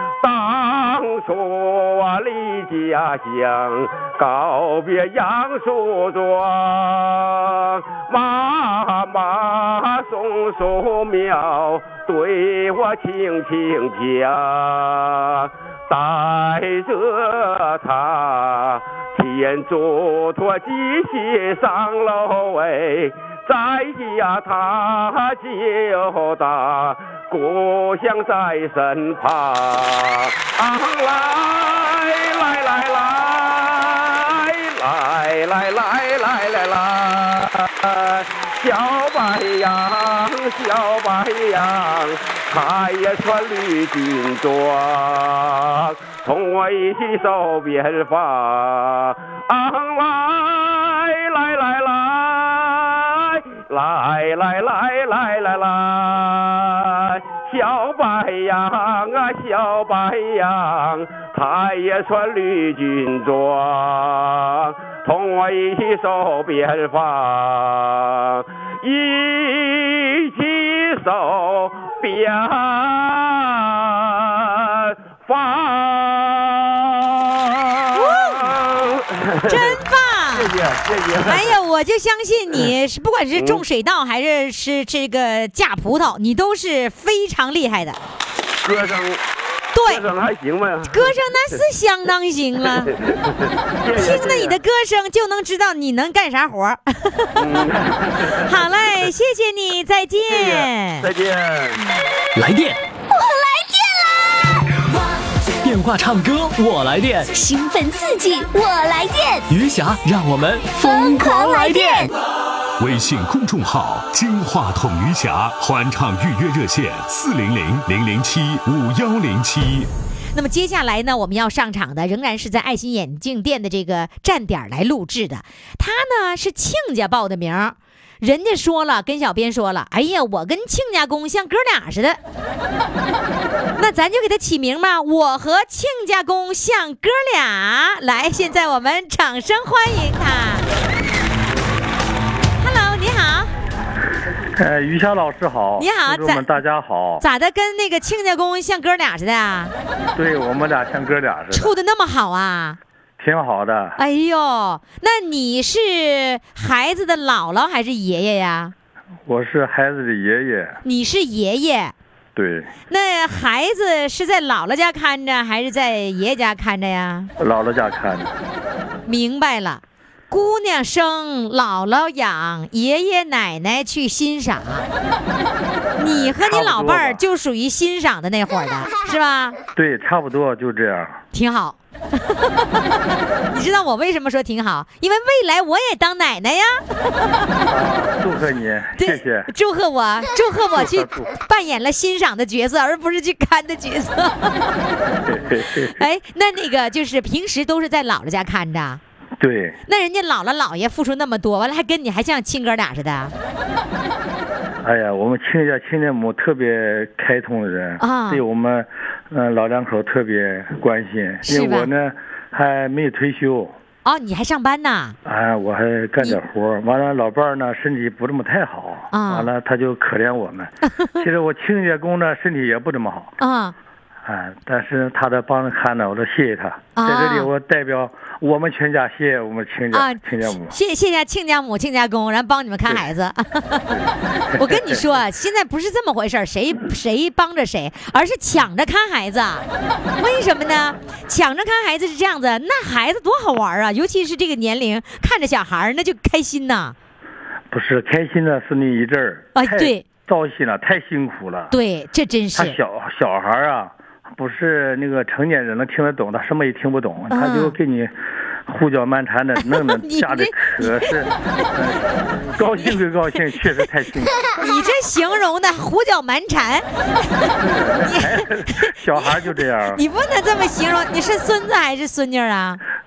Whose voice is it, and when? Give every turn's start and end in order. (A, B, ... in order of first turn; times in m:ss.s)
0:00.2-1:21.6 A
1:17.9-1:18.5 B
1:19.4-1:20.5 B
1:21.2-1:28.0 B
1:23.3-1:23.6 A
1:28.6-1:29.2 A
1:29.7-1:30.0 B
1:29.8-1:31.6 A
1:30.8-1:32.9 B
1:32.6-1:34.6 A
1:33.9-1:37.6 B
1:37.4-1:39.1 A
1:38.3-1:41.1 B
1:40.3-1:41.8 A
1:42.3-1:42.8 C
1:43.1-1:44.4 D
1:45.6-1:47.3 C
1:47.3-1:49.5 D
1:49.5-1:52.1 C
1:50.7-1:52.1 D
1:52.8-1:59.9 E
2:00.3-2:12.2 B
2:13.8-2:20.7 B
2:22.6-2:23.5 B
2:24.6-2:27.2 F
2:25.8-2:26.5 B
2:27.2-2:29.7 B
2:30.2-2:31.7 F
2:31.5-2:32.8 B
2:33.2-2:34.0 F
2:34.0-2:38.7 B
2:39.2-2:40.8 F
2:40.8-2:41.9 B
2:42.4-2:42.7 F
2:42.9-2:47.3 B
2:47.4-2:48.3 F
2:49.1-2:54.8 B
2:56.0-2:59.6 B
2:56.0-2:57.2 F
2:59.8-3:01.2 F
3:01.3-3:07.6 B
3:07.7-3:09.5 F
3:09.0-3:14.7 B
3:10.7-3:11.3 F
3:15.0-3:16.0 F
3:15.8-3:19.0 B
3:19.4-3:19.8 F
3:19.9-3:23.3 B
3:24.8-3:33.7 F
3:28.0-3:28.4 B
3:31.4-3:31.9 B
3:34.0-3:35.2 B
3:35.2-3:43.3 F
3:39.1-3:39.5 B
3:43.4-3:43.7 B
3:44.2-3:50.8 F
3:47.0-3:47.5 B
3:49.9-3:54.0 B
3:53.9-3:55.0 F
3:54.5-3:59.6 B
4:00.2-4:06.9 B
4:07.7-4:11.7 F
4:09.5-4:10.0 B
4:11.7-4:12.8 B
4:12.6-4:18.1 F
4:17.3-4:17.8 B
4:18.7-4:24.4 F
4:19.6-4:21.3 B
4:24.6-4:32.8 B
4:27.6-4:30.0 F